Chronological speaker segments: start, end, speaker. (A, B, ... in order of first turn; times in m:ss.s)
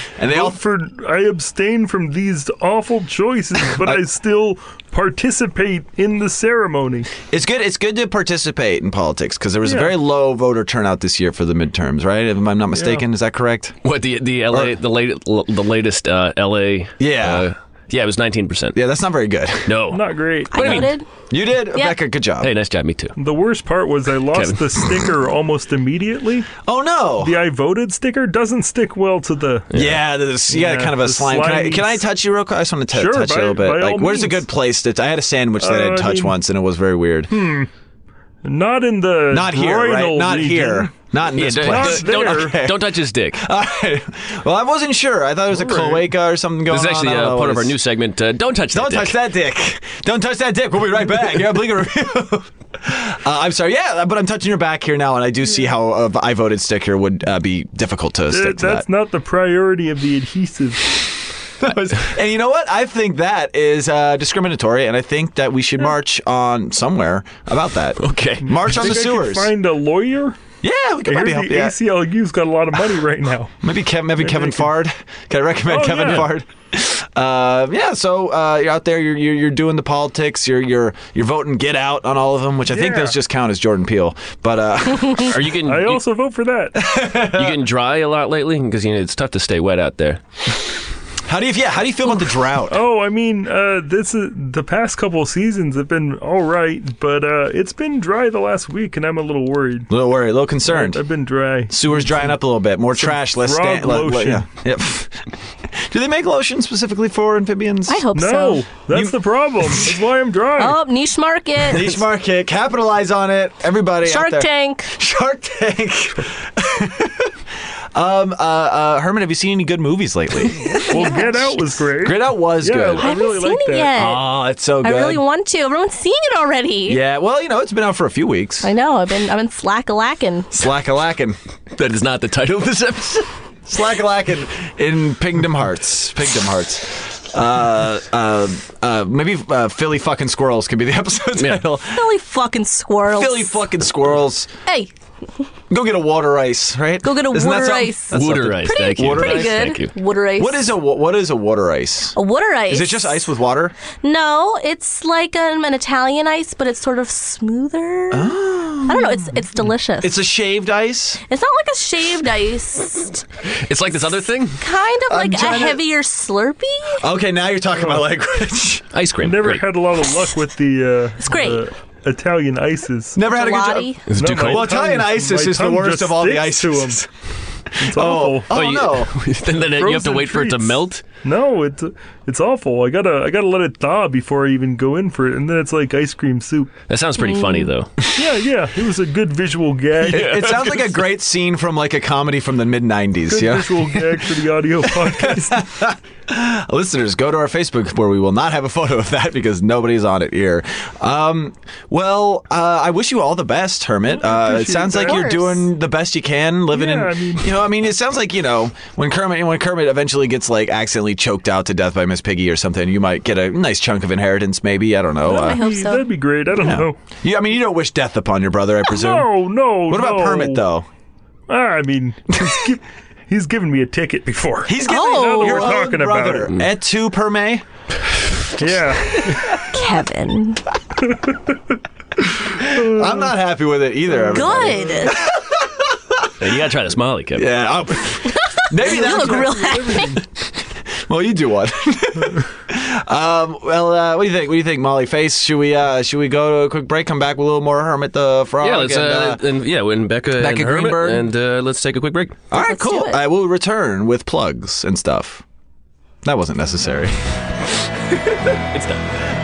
0:00.2-0:00.6 A
0:00.3-0:07.1 B
0:07.3-0:13.8 A
0:09.6-0:09.9 B
0:12.7-0:13.0 B
0:13.8-0:18.8 C
0:17.0-0:17.5 A
0:18.7-0:19.8 A
0:19.7-0:20.9 C
0:19.9-0:20.9 B
0:20.5-0:21.1 D
0:21.3-0:22.5 A
0:22.4-0:23.2 C
0:23.2-0:26.5 B
0:24.3-0:25.1 C
0:26.6-0:27.4 A
0:27.2-0:29.7 B
0:29.7-0:30.0 C
0:29.7-0:37.3 A
0:30.5-0:32.0 B
0:32.9-0:34.4 B
0:35.6-0:36.3 B
0:37.3-0:37.7 B
0:38.4-0:40.9 B
0:39.3-0:47.8 A
0:41.3-0:43.4 C
0:41.5-0:42.6 B
0:45.5-0:46.1 B
0:46.7-0:49.2 C
0:48.7-0:58.8 A
0:58.3-1:01.1 B
1:01.6-1:09.5 A
1:08.0-1:08.7 C
1:08.4-1:10.4 B
1:10.6-1:11.8 A
1:11.1-1:13.5 B
1:13.6-1:25.4 A
1:14.2-1:14.7 B
1:15.7-1:16.3 B
1:22.7-1:23.2 B
1:25.2-1:26.0 C
1:25.6-1:26.8 B
1:26.8-1:27.6 A
1:27.3-1:30.2 C
1:31.3-1:32.8 A
1:32.7-1:39.9 B
1:39.9-1:41.0 A
1:40.6-1:42.1 B
1:41.7-1:48.0 A
1:43.0-1:44.4 B
1:47.9-1:48.6 D
1:48.1-1:50.8 B
1:48.9-1:50.0 A
1:50.6-1:51.9 D
1:51.7-1:57.4 A
1:54.0-1:54.9 D
1:57.9-2:03.2 A
2:00.7-2:01.3 D
2:00.8-2:04.2 B
2:03.0-2:04.2 D
2:03.9-2:05.2 A
2:04.8-2:07.0 D
2:06.9-2:08.7 A
2:08.6-2:10.5 D
2:10.5-2:11.4 A
2:11.8-2:13.3 C
2:13.7-2:22.1 A
2:21.4-2:21.6 C
2:21.9-2:23.6 D
2:23.1-2:24.5 A
2:25.7-2:29.7 A
2:27.0-2:30.7 D
2:28.1-2:29.9 C
2:30.4-2:32.2 A
2:32.2-2:33.2 D
2:32.7-2:33.8 A
2:34.0-2:40.2 D
2:38.1-2:39.3 A
2:40.0-2:41.2 A
2:41.3-2:43.2 D
2:43.6-2:44.6 C
2:44.6-2:47.0 D
2:45.1-2:45.8 A
2:47.0-2:48.9 A
2:48.9-2:49.6 C
2:49.2-2:53.2 B
2:51.2-2:51.6 D
2:53.2-2:57.1 A
2:53.2-2:54.0 D
2:54.1-2:54.7 C
2:54.2-2:57.0 B
2:57.7-2:59.1 A
2:57.8-2:58.5 B
2:58.5-3:01.0 C
2:59.6-3:06.7 B
3:06.9-3:08.0 C
3:07.2-3:07.7 D
3:08.1-3:10.7 B
3:10.0-3:14.2 A
3:10.0-3:10.9 C
3:13.3-3:15.6 B
3:14.9-3:35.6 A
3:24.1-3:25.2 B
3:25.0-3:25.7 D
3:26.7-3:27.5 B
3:35.3-3:36.1 D
3:35.3-3:37.0 B
3:36.5-3:39.3 A
3:38.9-3:40.6 B
3:39.9-3:40.9 A
3:41.5-3:46.5 B
3:42.3-3:42.6 A
3:44.6-3:47.6 A
3:44.8-3:45.8 D
3:48.6-3:49.7 B
3:49.1-3:49.6 A
3:49.6-3:50.6 D
3:52.4-3:56.3 A
3:52.8-3:53.3 B
3:54.2-3:55.1 B
3:54.3-3:55.2 D
3:56.4-3:57.5 C
3:57.4-4:09.4 A
3:58.3-4:00.2 D
3:58.8-4:00.2 B
4:08.6-4:12.4 C
4:10.4-4:11.3 A
4:12.5-4:15.4 A
4:12.5-4:13.2 D
4:16.2-4:17.2 A
4:18.1-4:18.6 A
4:18.7-4:19.1 C